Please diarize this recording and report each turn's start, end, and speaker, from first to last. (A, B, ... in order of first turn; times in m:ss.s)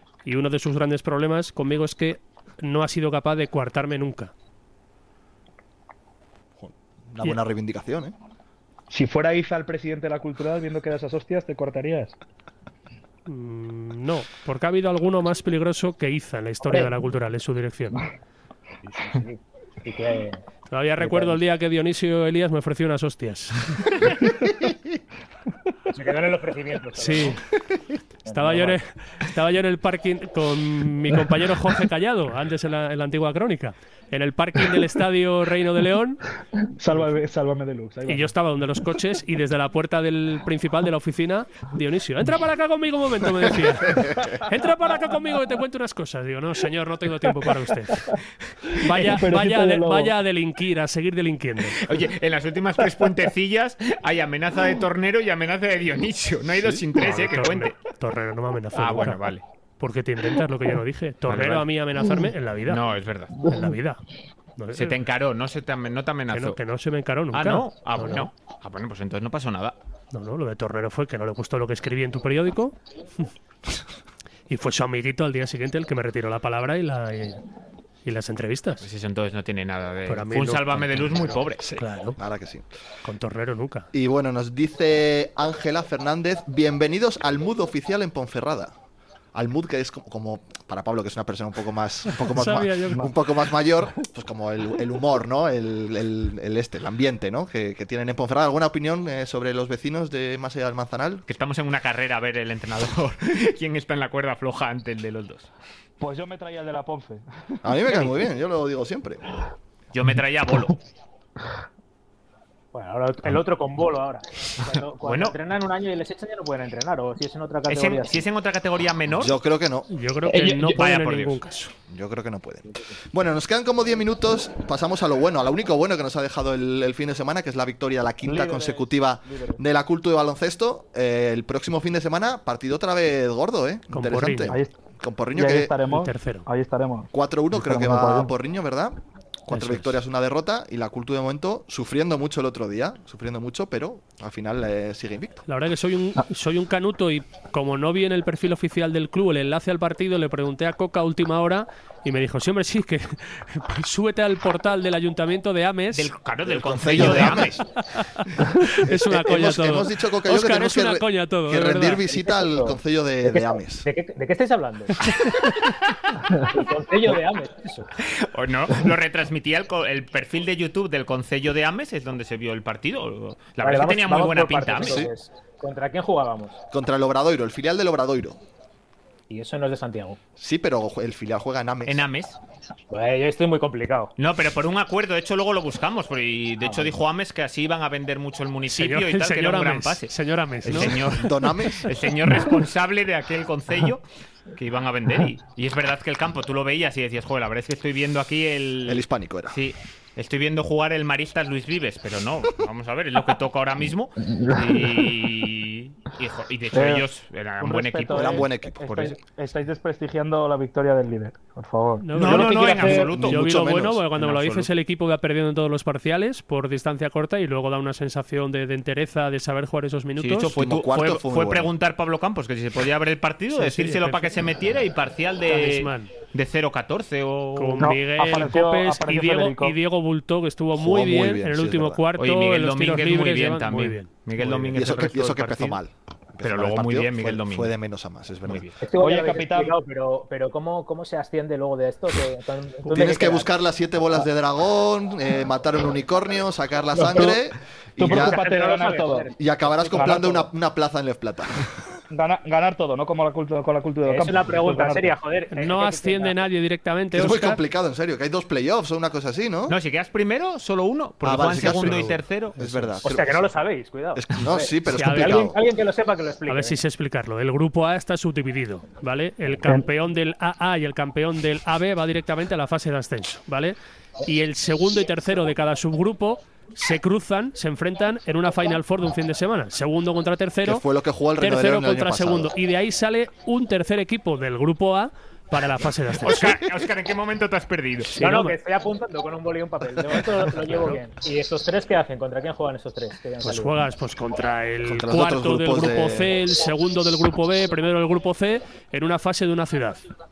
0:00.2-0:04.3 A
0:06.6-0:08.1 B
0:08.9-0:12.1 C
0:13.3-0:18.0 A
0:18.8-0:20.4 D
0:20.7-0:23.9 A
0:21.0-0:21.4 D
0:25.9-0:27.4 D
0:27.0-0:27.4 A
0:28.2-0:28.8 D
0:28.3-0:36.2 A
0:36.8-0:38.3 C
0:38.1-0:48.1 A
0:48.8-0:51.8 A
0:49.0-0:50.1 C
0:51.8-0:57.8 E
0:57.0-0:59.2 A
0:58.7-0:59.4 E
0:59.8-1:02.8 A
1:01.3-1:01.7 E
1:02.7-1:03.4 E
1:03.4-1:04.0 A
1:04.6-1:05.0 A
1:04.7-1:06.6 E
1:06.3-1:08.3 A
1:07.3-1:09.8 E
1:10.1-1:12.8 A
1:14.5-1:17.4 A
1:18.0-1:18.8 A
1:18.8-1:21.7 E
1:20.1-1:22.2 A
1:21.6-1:22.6 B
1:23.0-1:23.9 A
1:23.9-1:28.7 B
1:29.3-1:41.2 B
1:32.1-1:33.1 A
1:41.3-1:45.5 E
1:46.0-1:47.2 C
1:47.6-1:49.2 B
1:49.9-1:50.8 E
1:52.7-1:58.3 D
1:55.0-1:55.3 E
1:57.7-1:59.4 E
1:59.1-1:59.9 B
1:59.9-2:01.7 A
2:00.3-2:00.8 C
2:00.7-2:01.4 E
2:01.9-2:15.7 B
2:08.2-2:09.6 C
2:13.9-2:14.6 A
2:14.5-2:14.7 C
2:15.3-2:18.3 C
2:15.9-2:16.5 A
2:17.1-2:25.4 B
2:19.5-2:20.0 A
2:25.5-2:36.1 A
2:35.9-2:37.6 E
2:36.4-2:37.6 B
2:37.0-2:42.0 A
2:38.8-2:43.9 B
2:42.1-2:45.2 D
2:46.4-2:47.9 D
2:48.0-2:55.1 E
2:53.6-2:56.6 D
2:54.8-2:55.1 B
2:56.7-2:58.4 B
2:59.3-3:00.2 D
3:00.4-3:02.0 B
3:01.8-3:02.4 E
3:02.9-3:04.1 D
3:04.2-3:10.1 E
3:06.6-3:07.0 D
3:08.7-3:11.0 A
3:10.6-3:14.0 E
3:10.7-3:11.9 B
3:14.5-3:29.2 E
3:18.8-3:19.6 B
3:24.3-3:25.0 C
3:26.7-3:27.0 C
3:27.6-3:33.0 C
3:28.1-3:28.9 B
3:32.0-3:40.5 A
3:32.2-3:34.7 E
3:32.2-3:33.1 D
3:33.3-3:34.0 B
3:40.2-3:47.9 E
3:40.5-3:41.7 B
3:43.5-3:44.3 A
3:45.5-3:46.1 A
3:47.6-3:55.7 A
3:47.8-3:49.8 C
3:50.8-3:52.0 B
3:52.2-3:55.5 E
3:54.7-3:58.7 B
3:56.4-3:57.7 E
3:58.4-3:58.7 E
3:58.8-4:03.5 D
3:59.0-3:59.8 C
4:02.9-4:08.4 B
4:07.0-4:07.3 D
4:07.0-4:07.4 C
4:08.0-4:09.3 C
4:08.1-4:10.2 D
4:09.4-4:11.6 B
4:09.9-4:10.5 C
4:12.1-4:15.1 C
4:14.0-4:16.4 D
4:15.5-4:17.6 A
4:17.1-4:19.8 B
4:19.7-4:22.6 E
4:21.2-4:23.5 B
4:21.5-4:23.0 A
4:23.0-4:26.8 D
4:24.1-4:25.6 B
4:24.9-4:25.5 A
4:26.5-4:40.8 A
4:40.6-4:42.5 B
4:41.4-4:46.6 A
4:46.2-4:48.2 E
4:48.2-4:48.5 A
4:48.2-4:53.8 D
4:50.6-4:51.0 A
4:53.4-5:00.0 A
4:54.8-4:56.3 B